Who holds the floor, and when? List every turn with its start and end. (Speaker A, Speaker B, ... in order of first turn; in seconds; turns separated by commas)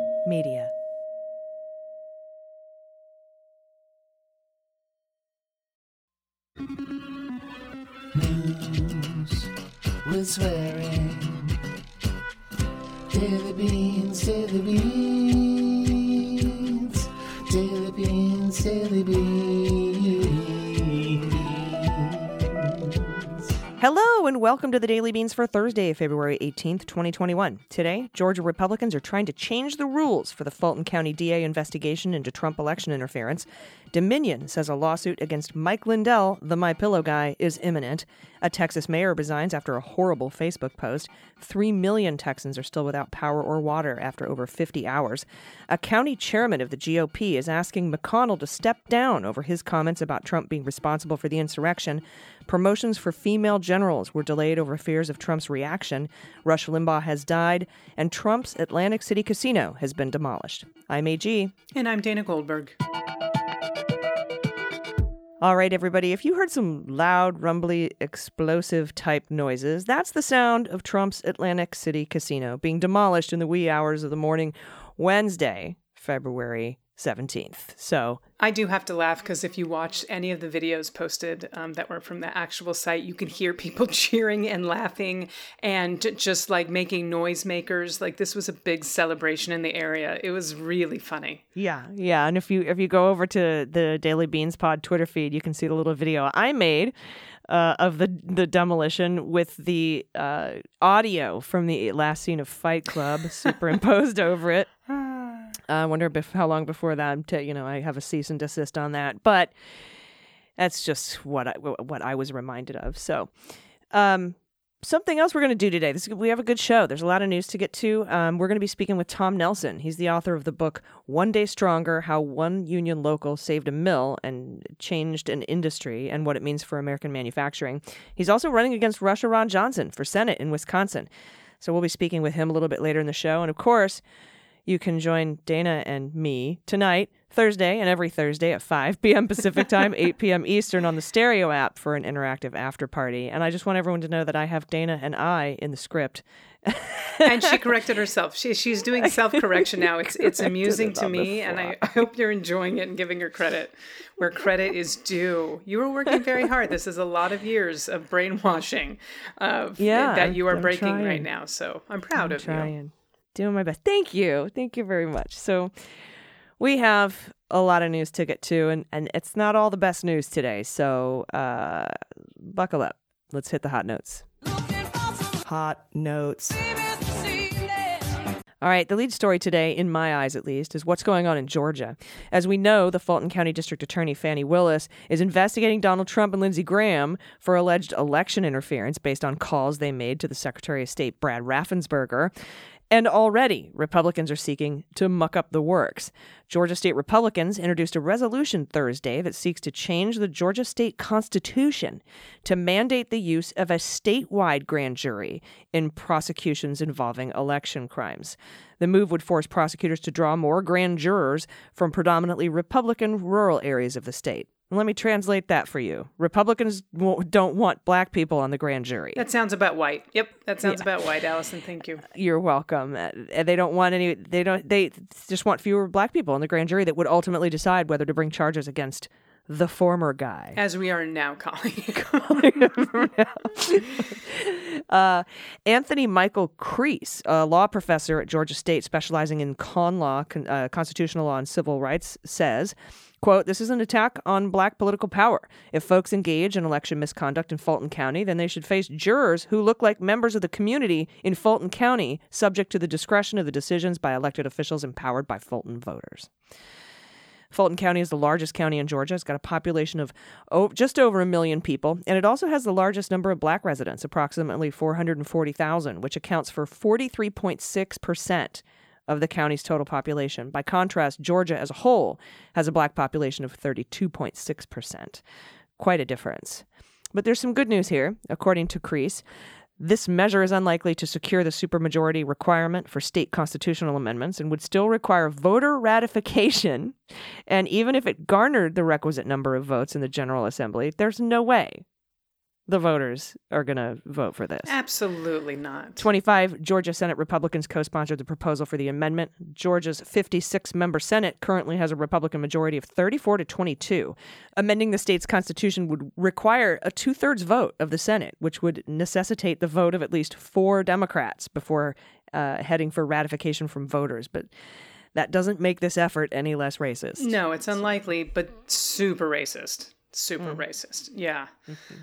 Speaker A: 0.2-0.7, Speaker B: 8.1-9.5, Speaker B: 10.0-11.6, Speaker B: 13.1-23.3, Speaker A: 23.8-61.5, Speaker C: 61.7-62.8, Speaker A: 65.4-78.2, Speaker C: 78.4-91.4, Speaker A: 91.5-96.9, Speaker A: 97.5-104.7, Speaker C: 104.9-105.5, Speaker A: 105.7-109.5, Speaker A: 110.6-113.3, Speaker A: 113.9-131.1, Speaker A: 131.6-134.0, Speaker A: 134.7-147.5, Speaker C: 147.2-162.7, Speaker A: 149.1-151.9, Speaker A: 159.8-161.3, Speaker A: 162.1-165.7, Speaker A: 166.6-174.3, Speaker A: 175.2-177.7, Speaker A: 178.6-192.3, Speaker A: 192.9-219.2, Speaker C: 219.2-222.1, Speaker A: 222.1-230.6, Speaker C: 230.6-232.8, Speaker A: 232.2-256.3, Speaker A: 257.5-275.2, Speaker A: 275.8-279.2, Speaker A: 279.8-287.0, Speaker A: 287.5-291.8, Speaker A: 292.7-294.7, Speaker C: 294.7-296.0, Speaker A: 296.0-314.5, Speaker A: 315.1-317.3, Speaker C: 317.2-321.5